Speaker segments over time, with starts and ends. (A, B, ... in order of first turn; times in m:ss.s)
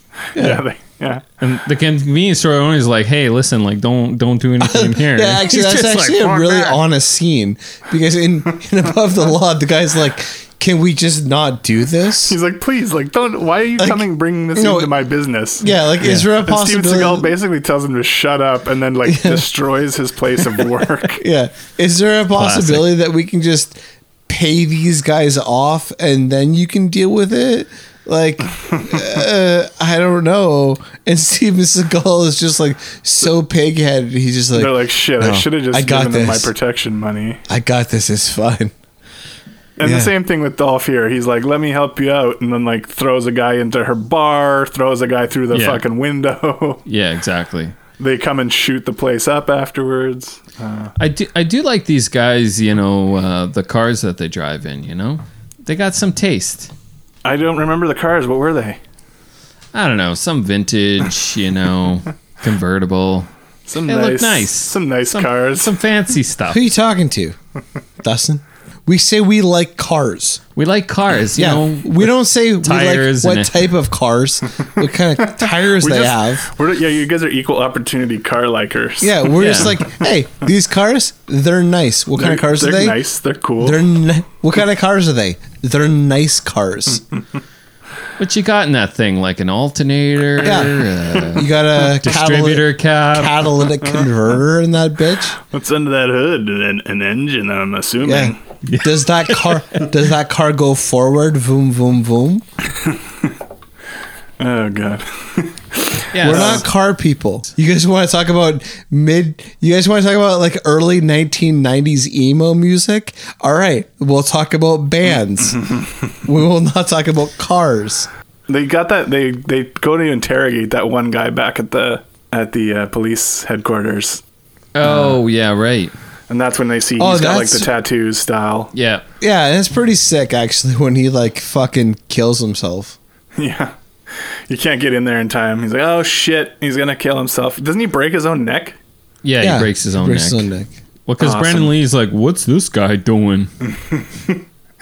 0:00.4-0:00.6 A
0:00.4-0:01.2 B
0:01.4-0:06.8 C
0:04.6-0:12.4 A
0:12.2-0:15.7 B
0:13.8-0:14.0 A
0:14.6-0:14.9 A
0:15.6-0:17.3 A
0:16.0-0:16.3 C
0:16.4-0:21.2 B
0:19.0-0:19.4 A
0:21.1-0:36.5 A
0:22.3-0:22.8 C
0:34.5-0:37.4 B
0:37.5-0:38.7 A
0:39.8-0:46.8 B
0:39.8-0:40.1 A
0:45.5-0:45.8 C
0:46.8-0:47.7 C
0:48.0-0:50.9 B
0:51.0-0:56.7 C
0:57.2-0:58.8 B
0:59.7-1:03.3 C
1:03.7-1:05.7 B
1:03.8-1:06.6 C
1:06.5-1:07.4 A
1:08.0-1:10.4 A
1:10.6-1:13.7 C
1:11.4-1:16.5 A
1:15.4-1:19.7 B
1:19.0-1:23.0 A
1:19.4-1:19.8 C
1:22.2-1:23.8 B
1:23.6-1:27.0 A
1:28.2-1:33.5 C
1:30.4-1:35.4 A
1:35.5-1:38.4 B
1:38.0-1:42.4 A
1:38.6-1:39.9 C
1:44.4-1:46.6 B
1:46.1-1:46.7 C
1:46.2-1:55.7 A
1:56.2-1:58.1 A
1:58.5-2:04.2 B
2:04.7-2:05.9 C
2:04.8-2:05.2 A
2:06.3-2:08.7 B
2:07.0-2:07.7 A
2:08.7-2:09.0 C
2:09.2-2:13.0 A
2:13.4-2:13.7 B
2:14.5-2:18.8 B
2:19.2-2:20.5 C
2:19.4-2:20.7 A
2:21.1-2:23.5 C
2:21.2-2:21.7 B
2:23.6-2:24.4 B